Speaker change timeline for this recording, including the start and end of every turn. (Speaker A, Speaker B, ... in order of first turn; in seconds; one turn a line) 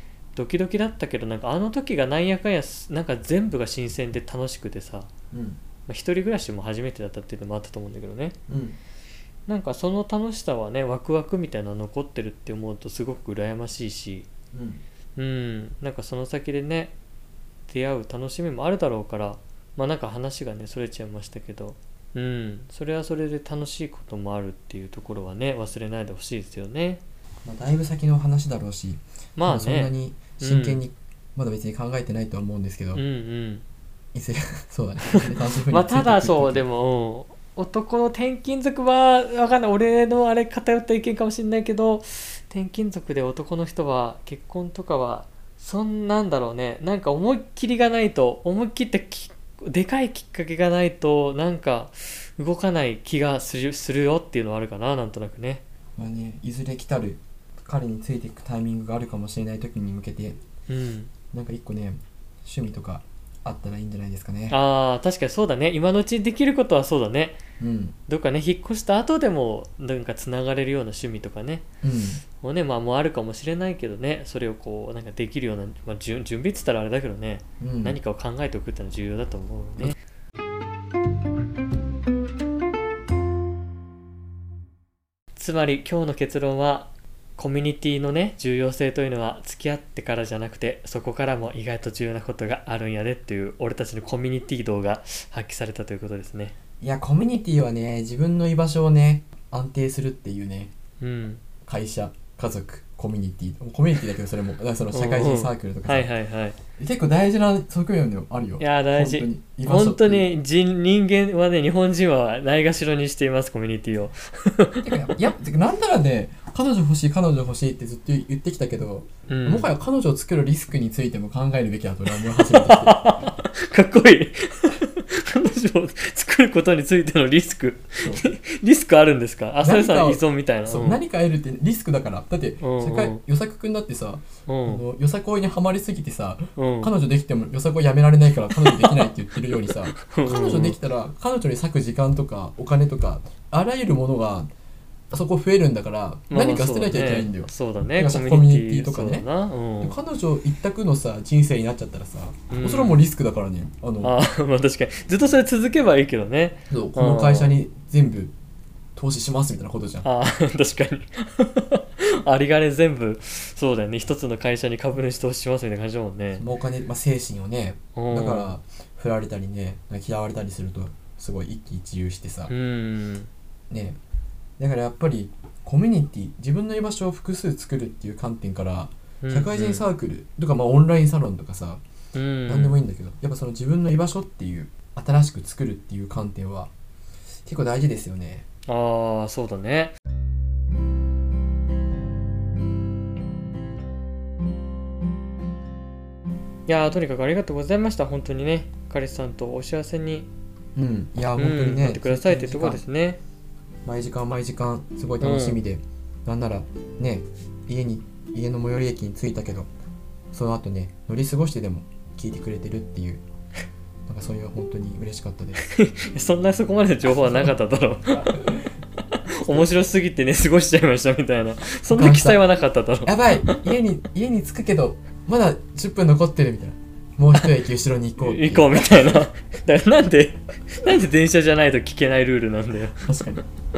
Speaker A: 0.3-5.1
Speaker B: 5.3-5.6
Speaker A: 5.9-8.4
Speaker B: 8.5-8.8
Speaker A: 9.5-14.3
Speaker B: 14.5-14.8
Speaker A: 15.2-16.9
Speaker A: 17.7-27.0
Speaker B: 27.4-33.0
Speaker A: 29.4-30.8
Speaker A: 32.9-33.6
Speaker B: 34.1-36.6
Speaker A: 35.1-55.6
Speaker B: 56.0-60.4
Speaker A: 60.7-61.1
Speaker B: 61.3-64.6
Speaker A: 64.5-67.4
Speaker B: 67.6-68.0
Speaker A: 68.1-71.7
Speaker B: 71.8-72.2
Speaker A: 72.4-80.0
Speaker B: 77.6-78.0
Speaker A: 85.4-96.5
Speaker B: 96.8-100.7
Speaker A: 101.0-101.4
Speaker B: 101.6-106.1
Speaker A: 104.9-106.6
Speaker B: 106.8-110.3
Speaker A: 108.6-114.8
Speaker B: 114.8-123.0
Speaker A: 119.3-119.7
Speaker A: 122.1-131.0
Speaker B: 128.0-128.3
Speaker B: 129.6-144.5
Speaker A: 132.6-133.2
Speaker A: 134.5-134.8
Speaker A: 136.6-136.9
Speaker A: 138.6-139.1
Speaker A: 139.7-140.8
Speaker B: 145.1-149.3
Speaker A: 146.3-150.0
Speaker B: 149.8-154.2
Speaker A: 152.5-153.0
Speaker A: 154.0-157.6
Speaker B: 156.7-158.3
Speaker B: 158.9-160.1
Speaker A: 160.0-166.4
Speaker B: 166.4-172.5
Speaker A: 168.0-168.6
Speaker A: 172.5-173.3
Speaker B: 173.7-174.0
Speaker B: 174.6-181.8
Speaker A: 179.2-179.9
Speaker A: 182.2-182.8
Speaker B: 182.5-186.7
Speaker B: 187.4-188.5
Speaker A: 188.7-190.0
Speaker A: 196.7-200.3
Speaker B: 200.8-202.8
Speaker A: 201.4-203.2
Speaker B: 203.8-209.7
Speaker A: 205.2-205.6
Speaker B: 210.3-213.2
Speaker B: 214.1-215.6
Speaker A: 215.6-218.5
Speaker A: 219.1-223.6
Speaker B: 221.9-222.4
Speaker B: 223.1-229.2
Speaker A: 228.2-233.1
Speaker B: 233.0-233.5